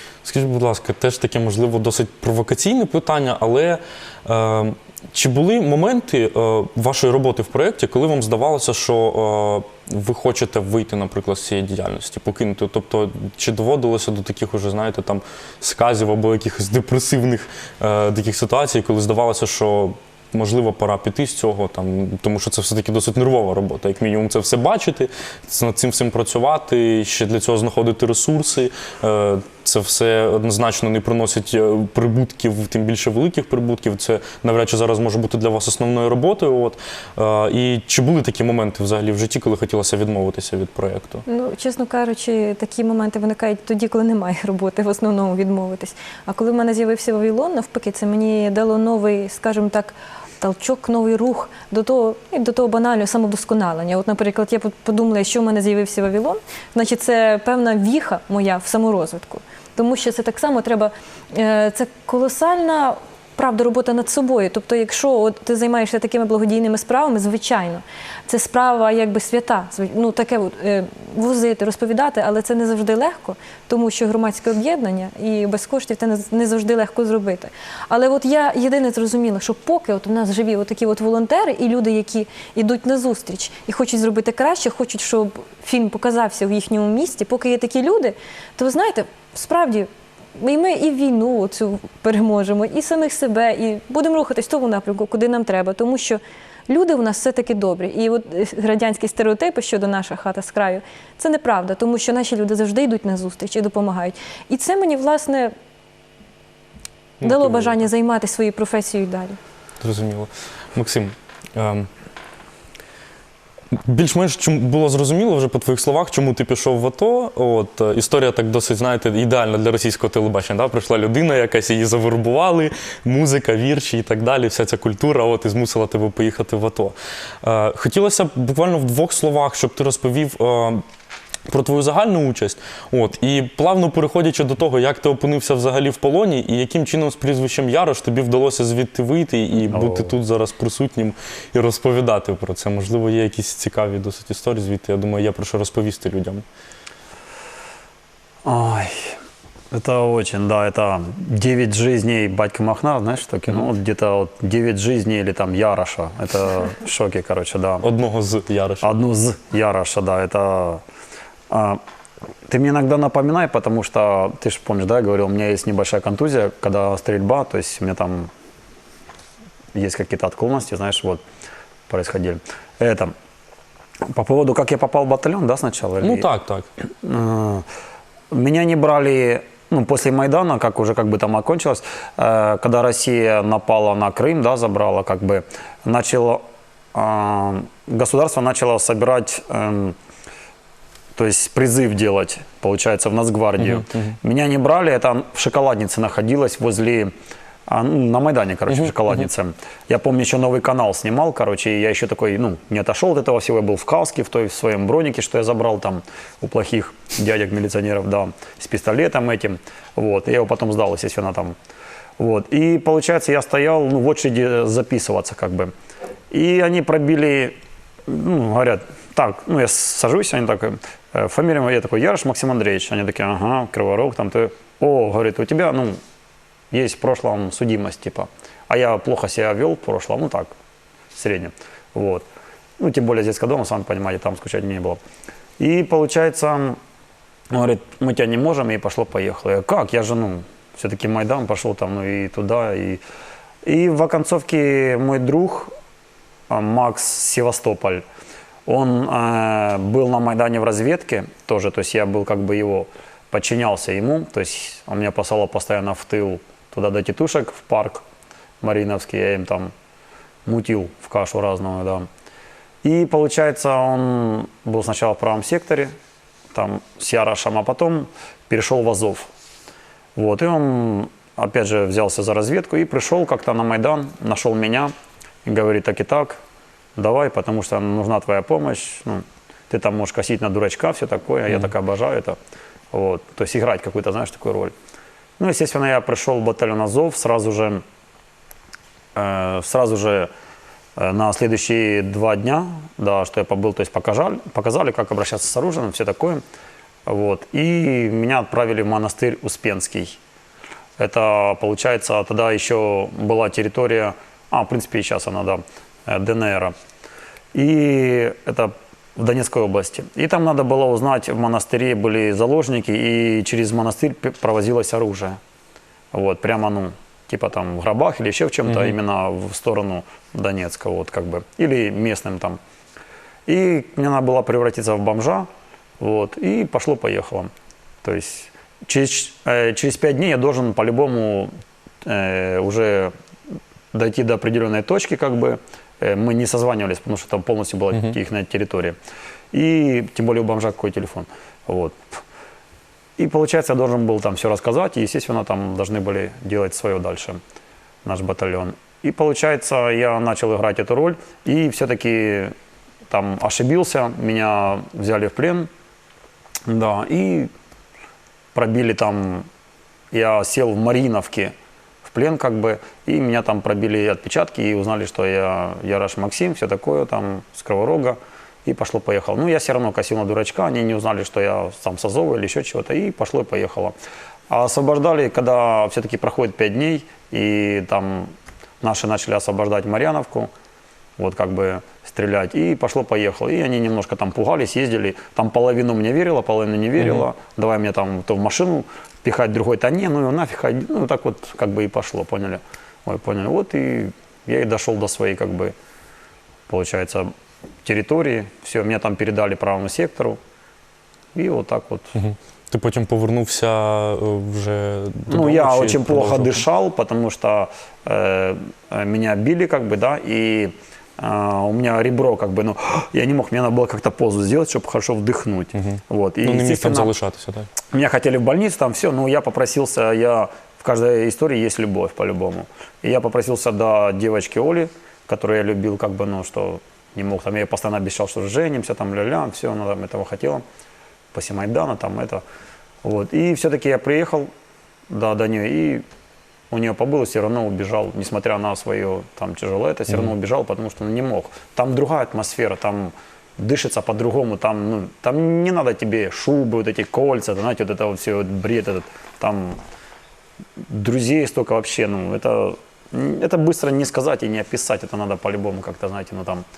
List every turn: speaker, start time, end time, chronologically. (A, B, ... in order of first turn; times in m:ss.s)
0:00.2-0:41.2 A
0:41.2-1:45.5 B
1:47.2-1:47.8 A
1:47.2-1:49.4 B
1:49.8-1:51.9 A
1:53.8-2:10.8 A
2:11.5-2:26.4 A
2:19.7-2:20.1 C
2:28.4-2:29.2 C
2:29.7-2:37.8 C
2:37.8-2:38.9 A
2:38.8-2:40.8 C
2:41.5-2:41.8 C
2:42.5-2:48.3 C
2:49.7-2:51.2 C
2:51.9-2:53.1 C
2:54.1-2:56.3 C
2:56.0-2:56.7 A
2:56.9-2:57.6 C
2:58.3-3:10.0 C
3:11.1-3:17.1 C
3:13.6-3:14.1 A
3:17.7-3:31.6 C
3:18.7-3:18.9 A
3:32.2-3:35.7 C
3:36.3-3:46.0 C
3:46.7-3:50.5 C
3:51.1-3:52.2 C
3:52.8-3:55.0 C
3:55.6-3:56.8 C
3:57.5-4:03.0 C
4:03.6-4:05.7 C
4:06.5-4:08.0 C
4:08.6-4:18.0 C
4:18.6-4:19.7 C
4:20.4-4:22.1 C
4:22.8-4:25.9 C
4:26.5-4:29.3 C
4:30.2-4:34.9 C
4:35.4-4:36.4 C
4:37.0-4:42.4 C
4:42.9-4:44.7 C
4:45.4-4:47.8 C
4:49.1-4:50.3 C
4:51.0-4:56.4 C
4:57.0-5:00.2 C
5:01.0-5:06.7 C
5:07.5-5:15.4 C
5:16.1-5:22.6 C
5:18.7-5:18.9 A
5:23.5-5:25.5 C
5:26.0-5:27.5 C
5:28.0-5:33.1 C
5:33.9-5:39.0 C
5:39.5-5:42.2 C
5:43.2-5:47.4 C
5:48.0-5:52.5 C
5:53.1-5:55.7 C
5:56.7-5:57.5 C
5:58.5-5:59.5 C
6:00.1-6:13.9 C
6:14.5-6:20.5 C
6:21.2-6:35.7 C
6:36.7-6:37.3 C
6:37.8-6:40.4 C
6:41.3-6:42.1 C
6:42.1-6:46.6 A
6:45.3-6:57.1 C
6:55.8-6:57.7 A
6:57.9-7:10.6 C
7:11.3-7:12.4 C
7:13.0-7:14.5 C
7:15.1-7:16.0 C
7:16.7-7:29.8 C
7:30.8-7:36.6 C